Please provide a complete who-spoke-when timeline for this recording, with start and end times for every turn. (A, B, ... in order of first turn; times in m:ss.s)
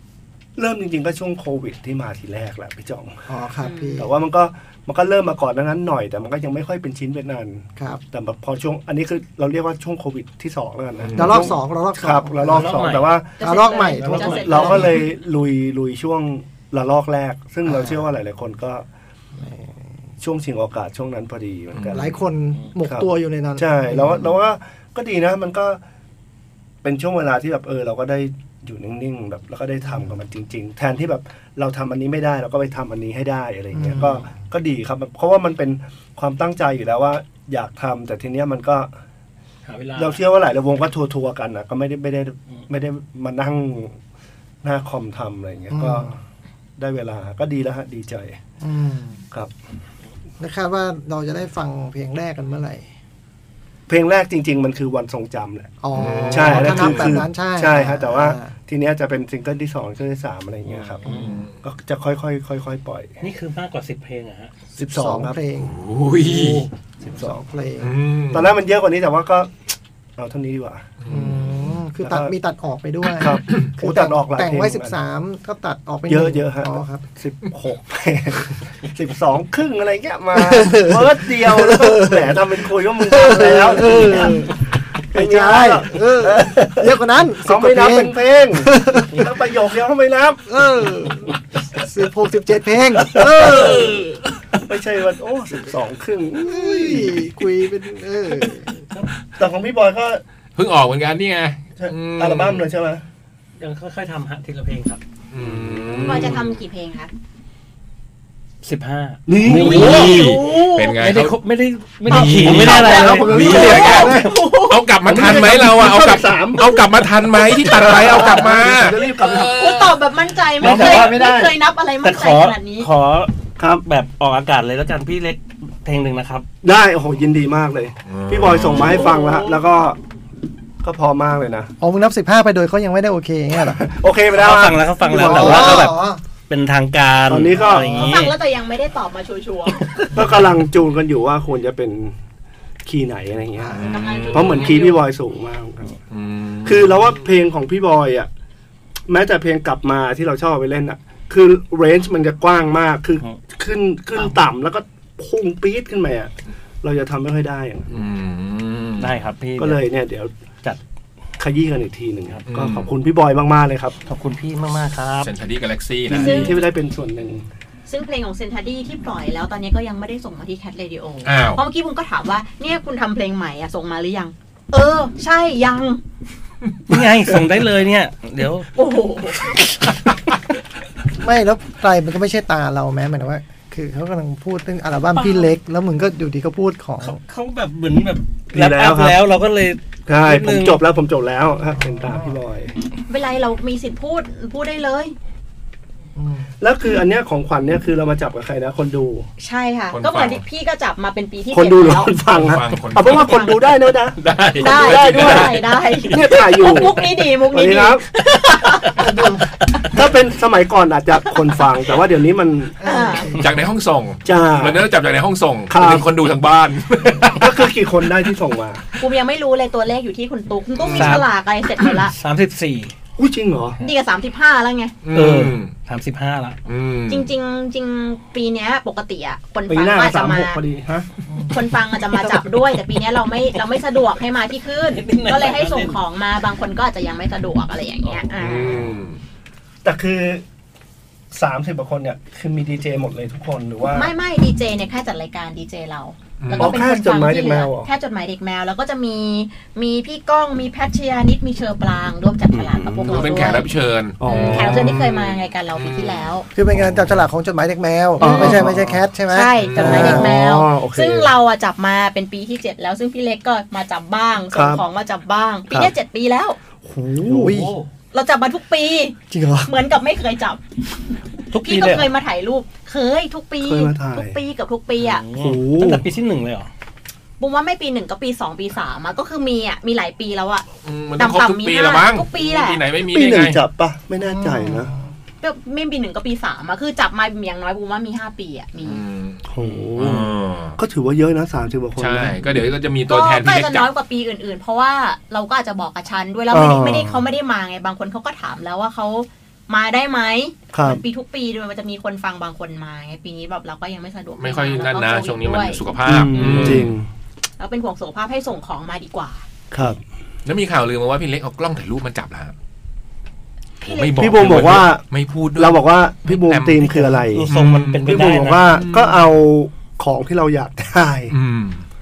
0:00.6-0:03.2 A
0:03.3-0:04.2 B
0:03.6-0:04.1 C
0:04.0-0:18.9 A
0:11.0-0:11.6 D
0:11.2-0:12.8 B
0:12.4-0:13.2 E
0:13.4-0:15.1 C
0:13.4-0:14.9 B
0:14.1-0:14.9 E
0:17.6-0:18.0 B
0:19.4-0:19.8 B
0:20.2-0:22.2 A
0:21.7-0:22.1 D
0:21.9-0:24.3 B
0:22.8-0:25.8 A
0:26.8-0:38.9 A
0:33.7-0:34.3 B
0:39.6-0:40.2 E
0:40.0-0:44.0 A
0:44.6-0:46.2 A
0:45.7-0:46.1 B
0:46.8-0:48.4 A
0:48.6-0:49.2 B
0:50.4-0:52.9 B
0:53.9-0:55.7 A
0:55.8-0:58.5 B
0:55.9-0:57.3 D
0:56.3-1:01.1 A
1:00.7-1:01.4 E
1:01.1-1:01.5 D
1:01.6-1:03.2 A
1:03.2-1:04.5 E
1:04.8-1:05.4 A
1:04.8-1:07.9 B
1:05.6-1:06.7 D
1:07.0-1:07.4 A
1:07.8-1:08.6 D
1:08.3-1:10.9 A
1:11.0-1:11.8 D
1:11.1-1:17.0 B
1:12.0-1:12.3 A
1:13.2-1:15.0 A
1:13.2-1:13.7 D
1:16.1-1:30.4 A
1:20.3-1:22.4 B
1:23.0-1:24.5 B
1:25.1-1:29.3 B
1:30.5-1:34.0 B
1:33.1-1:34.0 A
1:33.6-1:34.1 E
1:34.6-1:37.3 A
1:36.4-1:38.8 B
1:39.4-1:40.2 A
1:40.6-1:42.7 D
1:41.8-1:43.0 A
1:43.6-1:45.0 E
1:45.3-1:46.5 D
1:45.8-1:46.3 E
1:46.0-1:47.1 C
1:48.6-1:54.0 E
1:49.3-1:50.2 A
1:49.4-1:51.4 D
1:52.0-2:00.0 D
1:52.1-1:54.4 A
1:52.7-1:54.8 C
1:55.0-1:56.9 A
1:57.6-1:59.9 A
1:59.3-2:02.9 C
2:00.6-2:01.3 E
2:00.6-2:01.5 A
2:02.0-2:03.3 E
2:03.8-2:06.5 E
2:06.6-2:10.0 A
2:08.1-2:09.1 D
2:08.9-2:09.6 C
2:10.8-2:11.7 A
2:11.8-2:13.8 B
2:13.7-2:15.9 A
2:14.3-2:18.3 E
2:15.1-2:16.2 B
2:17.3-2:18.2 A
2:17.9-2:20.1 C
2:20.1-2:22.2 A
2:22.8-2:25.9 A
2:23.7-2:25.0 C
2:23.7-2:24.8 D
2:26.1-2:27.2 D
2:26.6-2:28.3 A
2:29.1-2:38.0 A
2:37.9-2:39.2 D
2:39.0-2:39.8 E
2:39.6-2:40.3 A
2:41.4-2:44.0 A
2:42.5-2:42.9 D
2:44.1-2:45.3 E
2:45.2-2:46.6 D
2:46.1-2:47.5 A
2:46.2-2:46.7 C
2:47.9-2:56.0 C
2:51.2-2:51.6 D
2:56.9-2:58.7 E
2:58.8-2:59.6 C
3:01.1-3:07.2 B
3:05.2-3:05.5 C
3:07.0-3:10.8 E
3:08.5-3:09.2 A
3:10.1-3:12.7 A
3:11.8-3:12.4 B
3:13.1-3:15.2 C
3:16.2-3:16.5 B
3:16.6-3:19.3 A
3:19.4-3:22.1 C
3:19.9-3:20.4 D
3:21.5-3:28.1 A
3:22.3-3:26.2 D
3:23.1-3:23.5 C
3:24.6-3:29.0 C
3:29.0-3:29.5 B
3:29.9-3:32.8 A
3:32.8-3:33.3 C
3:32.9-3:33.3 B
3:33.4-3:37.7 D
3:34.2-3:34.8 A
3:35.7-3:36.1 A
3:37.3-3:38.8 A
3:39.0-3:42.1 C
3:40.8-3:41.3 D
3:40.9-3:41.3 E
3:41.8-3:42.9 E
3:43.2-3:43.8 A
3:43.8-3:44.9 C
3:45.0-3:45.7 D
3:45.1-3:46.6 E
3:46.7-3:47.3 D
3:47.1-3:50.6 C
3:49.7-3:51.1 A
3:51.5-3:58.8 C
3:54.9-3:56.0 E
3:58.4-3:59.2 D
3:59.8-4:00.4 A
4:01.3-4:04.1 A
4:03.9-4:13.7 C
4:06.4-4:06.8 D
4:06.6-4:07.9 A
4:12.5-4:13.6 A
4:13.1-4:16.3 D
4:14.2-4:14.9 A
4:14.3-4:16.5 C
4:16.6-4:20.4 B
4:18.2-4:19.0 A
4:18.2-4:18.6 C
4:19.3-4:26.6 C
4:19.6-4:20.3 D
4:19.8-4:21.3 A
4:24.5-4:24.8 A
4:26.9-4:27.6 A
4:27.2-4:27.7 B
4:27.5-4:27.9 E
4:28.1-4:30.6 C
4:29.3-4:29.7 B
4:31.5-4:32.1 E
4:31.6-4:35.2 C
4:33.6-4:34.4 A
4:35.0-4:36.7 E
4:35.4-4:36.1 A
4:37.4-4:42.8 C
4:40.8-4:43.6 D
4:43.1-4:44.9 A
4:44.2-4:45.0 B
4:45.4-4:49.0 C
4:48.8-4:50.8 D
4:49.5-4:52.5 A
4:52.0-4:53.9 D
4:53.1-5:05.8 C
4:56.5-4:57.2 A
5:00.7-5:01.0 A
5:04.4-5:07.0 D
5:06.0-5:07.1 A
5:06.4-5:06.8 C
5:07.6-5:09.4 C
5:09.7-5:10.0 A
5:10.4-5:12.5 D
5:13.8-5:14.3 C
5:13.8-5:19.2 D
5:14.2-5:17.5 A
5:17.3-5:18.7 E
5:18.0-5:21.4 A
5:21.3-5:21.8 D